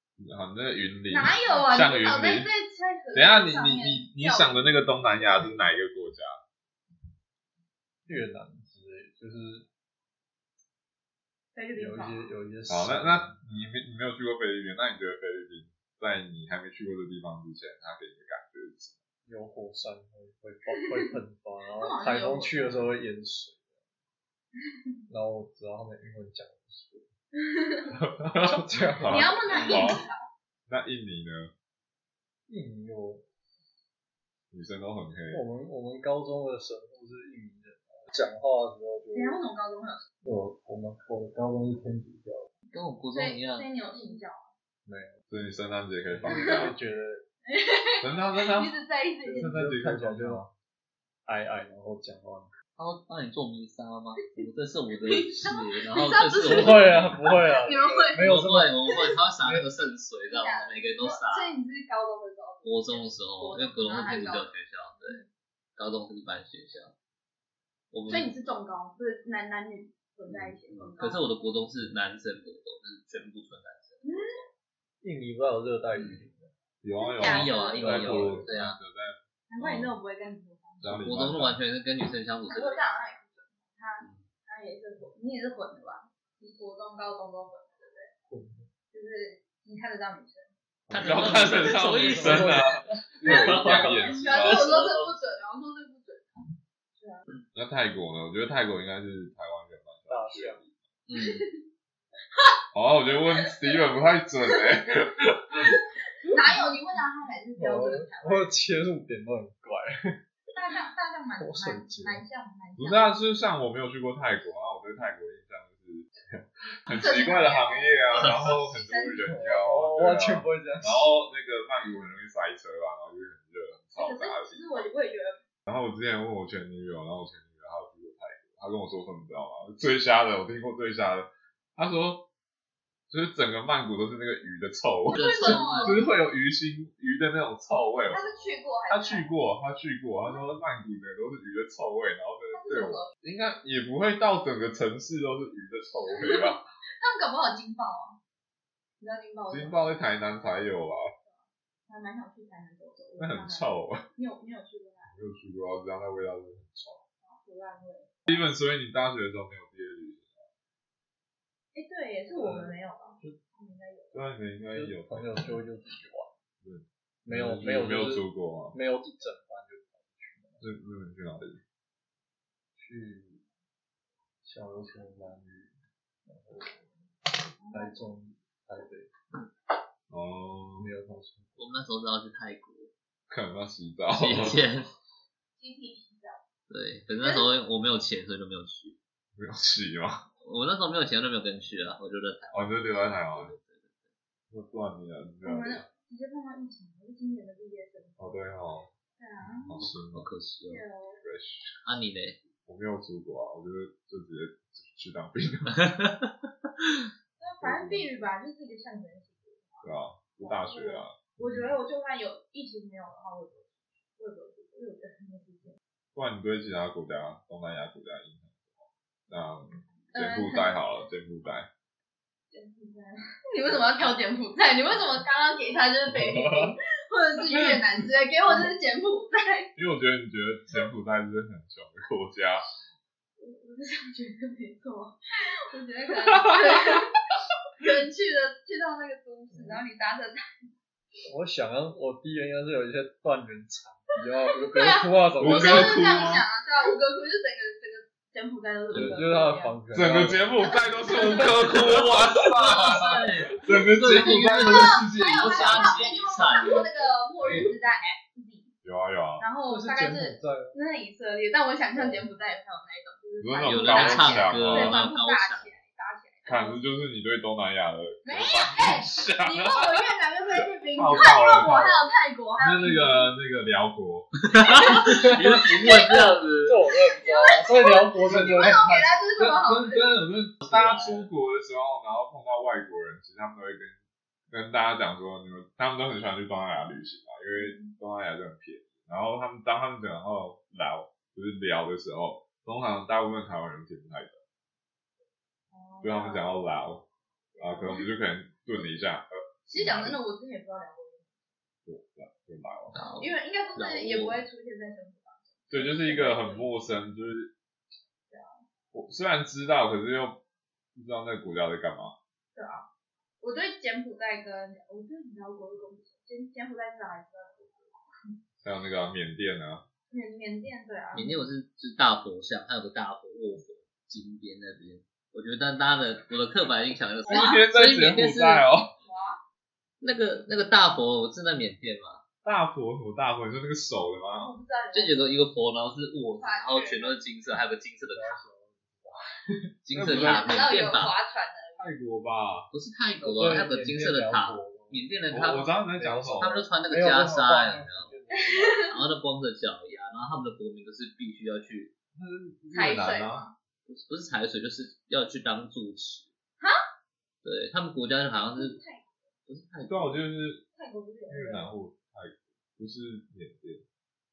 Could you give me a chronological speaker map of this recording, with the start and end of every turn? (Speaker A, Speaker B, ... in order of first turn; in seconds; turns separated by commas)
Speaker A: 0.2-2.5, Speaker B: 1.1-5.5, Speaker A: 3.1-6.4, Speaker C: 8.1-9.7, Speaker B: 11.5-12.3, Speaker C: 11.8-13.4, Speaker A: 12.7-19.0, Speaker C: 19.2-23.8, Speaker B: 21.8-22.9, Speaker C: 25.1-27.1, Speaker B: 27.4-28.0, Speaker A: 27.9-30.0, Speaker C: 28.3-29.8, Speaker B: 29.1-30.2, Speaker D: 29.5-29.9, Speaker A: 30.7-31.5, Speaker C: 32.5-33.2, Speaker A: 34.5-35.4, Speaker C: 35.3-39.4, Speaker B: 39.1-40.0, Speaker C: 40.2-42.5, Speaker D: 42.7-43.7, Speaker B: 43.1-44.5, Speaker C: 44.8-45.2, Speaker A: 45.3-46.8, Speaker C: 46.0-47.2, Speaker B: 46.3-46.7, Speaker B: 47.5-49.5, Speaker A: 48.0-48.7, Speaker C: 49.2-50.5, Speaker A: 49.3-50.5, Speaker C: 51.2-52.5, Speaker D: 52.8-57.3, Speaker B: 55.0-58.2, Speaker C: 56.4-59.7, Speaker D: 58.2-61.5, Speaker B: 58.9-59.1, Speaker B: 60.2-65.3, Speaker D: 62.6-65.2, Speaker D: 65.8-66.9, Speaker D: 67.9-68.3, Speaker B: 68.1-71.2, Speaker D: 70.3-74.5, Speaker B: 74.0-74.4, Speaker C: 75.0-76.5, Speaker D: 75.9-76.3, Speaker A: 76.8-80.0, Speaker B: 77.0-78.0, Speaker D: 77.2-78.8, Speaker C: 77.8-78.5, Speaker B: 79.5-80.9, Speaker A: 80.8-81.6, Speaker D: 80.9-82.8, Speaker B: 82.4-88.1, Speaker C: 88.3-88.7, Speaker B: 88.9-90.5, Speaker A: 90.9-94.7, Speaker D: 90.9-92.7, Speaker C: 91.0-94.2, Speaker D: 93.2-95.1, Speaker B: 94.0-96.4, Speaker B: 97.0-97.2, Speaker A: 97.5-100.7, Speaker C: 100.1-100.6, Speaker D: 101.1-101.5, Speaker B: 101.2-101.5, Speaker A: 102.7-105.8, Speaker B: 103.3-103.8, Speaker B: 106.2-108.6, Speaker C: 107.6-110.2, Speaker B: 110.5-113.1, Speaker C: 111.4-112.2, Speaker A: 112.8-124.8, Speaker B: 116.9-119.7, Speaker C: 119.4-121.1, Speaker B: 124.0-125.4, Speaker A: 125.7-132.3, Speaker A: 133.1-146.7, Speaker D: 135.1-136.0, Speaker B: 135.1-136.0, Speaker B: 138.1-139.3, Speaker B: 142.5-143.1, Speaker B: 146.1-148.2, Speaker B: 149.0-149.8, Speaker A: 149.5-151.1, Speaker B: 151.2-155.1, Speaker A: 153.2-154.1, Speaker A: 155.1-157.0, Speaker B: 157.2-158.4, Speaker A: 158.3-160.5, Speaker B: 161.7-164.2, Speaker C: 162.3-163.3, Speaker A: 164.1-165.6, Speaker C: 164.7-166.3, Speaker A: 166.6-168.8, Speaker C: 167.2-170.6, Speaker A: 170.6-171.6, Speaker C: 172.7-173.4, Speaker C: 174.4-175.7, Speaker C: 176.2-176.9, Speaker B: 177.6-178.0, Speaker C: 177.7-179.1, Speaker A: 180.1-180.9, Speaker C: 180.8-181.6, Speaker D: 181.6-182.9, Speaker A: 183.3-184.6, Speaker D: 184.1-184.9, Speaker B: 185.6-186.4, Speaker D: 186.7-189.0, Speaker B: 187.2-187.5, Speaker A: 189.3-190.3, Speaker D: 190.4-194.1, Speaker A: 192.5-193.5, Speaker A: 194.5-195.9, Speaker B: 195.4-198.4, Speaker A: 198.2-198.9, Speaker B: 199.2-199.7, Speaker A: 199.4-200.3, Speaker D: 199.8-200.8, Speaker B: 200.7-201.2, Speaker A: 201.2-201.7, Speaker D: 201.8-202.4, Speaker A: 202.6-205.9, Speaker D: 205.7-206.9, Speaker B: 207.4-215.8, Speaker A: 207.6-208.1, Speaker A: 209.8-211.7, Speaker A: 216.1-221.7, Speaker B: 220.1-220.8, Speaker B: 222.5-229.7, Speaker A: 226.1-226.8, Speaker A: 227.5-227.8, Speaker A: 229.8-232.6, Speaker B: 233.4-237.2, Speaker A: 236.2-237.0, Speaker B: 237.8-240.4, Speaker C: 239.5-239.8, Speaker C: 241.2-246.1, Speaker B: 244.6-249.8, Speaker A: 245.4-246.4, Speaker C: 248.9-250.7, Speaker A: 249.9-256.1, Speaker B: 250.6-253.2, Speaker D: 251.5-257.0, Speaker B: 254.1-258.7, Speaker A: 257.4-257.7, Speaker A: 258.8-259.5, Speaker B: 259.4-266.8, Speaker C: 259.7-260.8, Speaker C: 261.9-262.3, Speaker A: 263.4-265.0, Speaker D: 263.6-265.8, Speaker A: 266.4-272.1, Speaker B: 268.2-273.3, Speaker A: 272.6-274.5, Speaker D: 274.4-276.8, Speaker C: 275.0-278.9, Speaker B: 276.9-280.1, Speaker A: 278.2-284.0, Speaker D: 280.6-281.3, Speaker A: 284.5-294.4, Speaker B: 287.5-287.9, Speaker B: 295.7-296.5, Speaker A: 296.0-300.2, Speaker B: 297.6-298.1, Speaker B: 299.7-301.5, Speaker A: 301.9-303.0, Speaker D: 302.9-304.4, Speaker B: 303.2-306.7, Speaker A: 305.7-307.5, Speaker B: 308.3-308.6, Speaker A: 308.9-310.4, Speaker A: 310.9-312.1, Speaker B: 312.5-312.9, Speaker B: 313.4-318.3, Speaker A: 318.6-319.8, Speaker B: 320.1-321.5, Speaker D: 321.1-328.7, Speaker A: 327.3-328.9, Speaker B: 327.3-327.6, Speaker B: 329.0-329.4, Speaker D: 330.0-332.2, Speaker A: 332.4-334.5, Speaker B: 334.3-335.5, Speaker D: 334.9-338.4, Speaker B: 336.4-337.2, Speaker C: 338.0-339.7, Speaker D: 339.8-341.1, Speaker A: 339.9-340.6, Speaker B: 340.1-341.9, Speaker A: 341.8-342.7, Speaker D: 342.7-345.7, Speaker C: 343.2-345.1, Speaker A: 345.3-346.6, Speaker C: 345.9-348.9, Speaker D: 346.4-348.1, Speaker B: 348.5-348.9, Speaker D: 348.8-351.9, Speaker A: 352.1-353.4, Speaker B: 352.7-353.5, Speaker D: 353.9-356.3, Speaker D: 357.4-358.8, Speaker B: 358.5-359.3, Speaker D: 359.5-360.2, Speaker A: 359.9-360.6, Speaker B: 360.7-361.7, Speaker A: 361.3-363.8